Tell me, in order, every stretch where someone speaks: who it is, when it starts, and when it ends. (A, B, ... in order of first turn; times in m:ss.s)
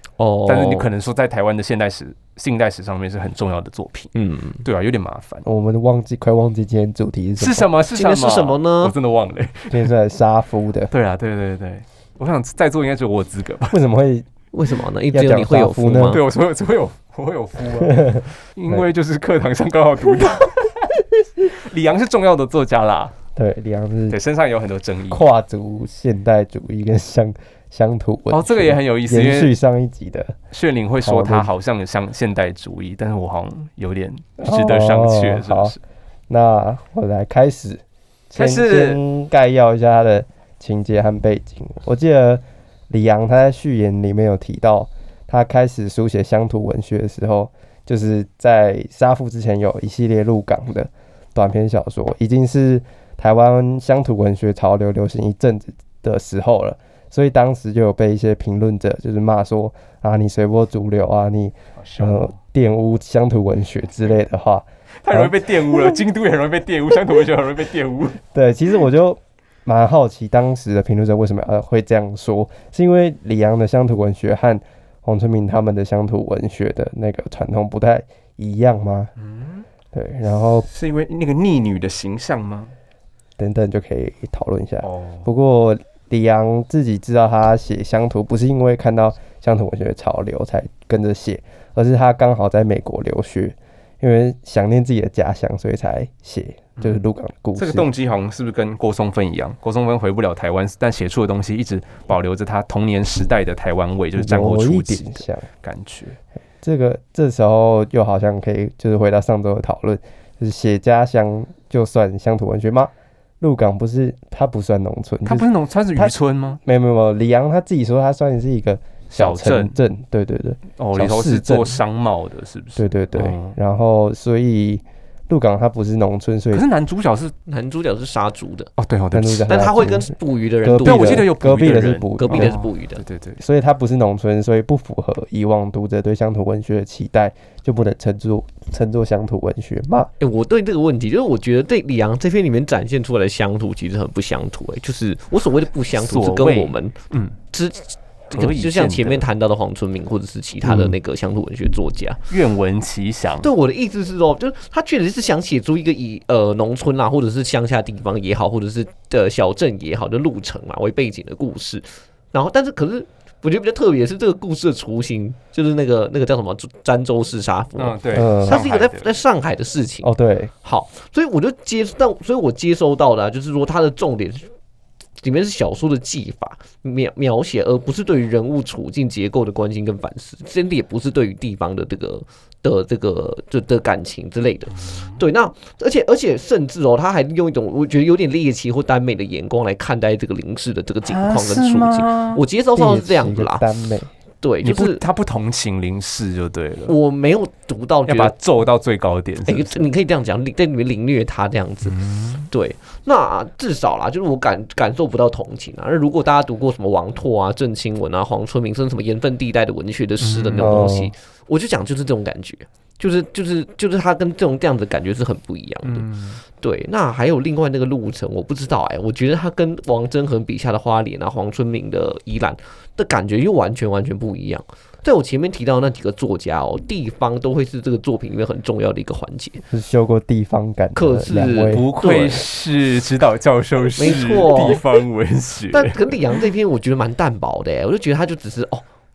0:00.2-0:00.9 A
0:00.5-0:04.1 B
0:04.2-0:04.6 A
0:04.6-0:05.4 B
0:05.4-0:07.7 C
0:07.4-0:09.9 B
0:07.9-0:08.9 A
0:09.7-0:10.9 C
0:10.9-0:13.8 B
0:13.7-0:14.3 C
0:14.5-0:16.2 A
0:15.1-0:16.2 C
0:16.1-0:23.2 B
0:17.8-0:18.8 C
0:23.4-0:24.2 C
0:24.1-0:25.3 B
0:25.1-0:30.4 C
0:28.3-0:29.5 B
0:30.5-0:35.8 B
0:31.0-0:31.5 C
0:34.4-0:35.8 C
0:36.3-1:06.0 C
0:38.4-0:39.0 B
1:01.8-1:02.3 B
1:05.0-1:08.2 B
1:08.3-1:19.1 C
1:19.2-1:19.6 B
1:19.9-1:20.7 C
1:20.7-1:22.7 B
1:23.4-1:37.9 C
1:24.8-1:25.3 B
1:37.6-1:46.2 B
1:44.2-1:45.5 C
1:46.6-2:01.8 C
1:55.2-1:56.6 B
1:59.1-1:59.8 B
2:00.8-2:03.6 B
2:02.8-2:06.7 C
2:06.5-2:07.4 B
2:07.5-2:08.7 A
2:08.8-2:09.5 B
2:09.1-2:12.6 C
2:09.5-2:11.3 A
2:10.8-2:13.4 B
2:12.2-2:13.0 A
2:13.4-2:20.1 C
2:20.2-2:27.0 A
2:25.9-2:27.4 B
2:27.5-2:32.2 A
2:28.3-2:29.2 B
2:32.3-2:33.5 B
2:33.4-2:50.1 A
2:47.8-2:49.1 B
2:48.1-2:48.6 C
2:50.0-2:50.5 C
2:50.6-2:54.5 A
2:55.2-3:13.6 A
3:11.1-3:12.4 B
3:12.8-3:14.1 C
3:14.4-3:15.0 A
3:14.6-3:17.0 B
3:16.9-3:18.3 A
3:18.1-3:19.9 B
3:19.5-3:49.6 A
3:21.8-3:22.5 B
3:30.2-3:30.7 B
3:30.6-3:31.1 C
3:35.8-3:36.4 B
3:49.7-3:51.9 C
3:51.0-3:52.4 A
3:51.7-3:56.4 B
3:54.0-3:54.8 A
3:55.7-3:58.8 A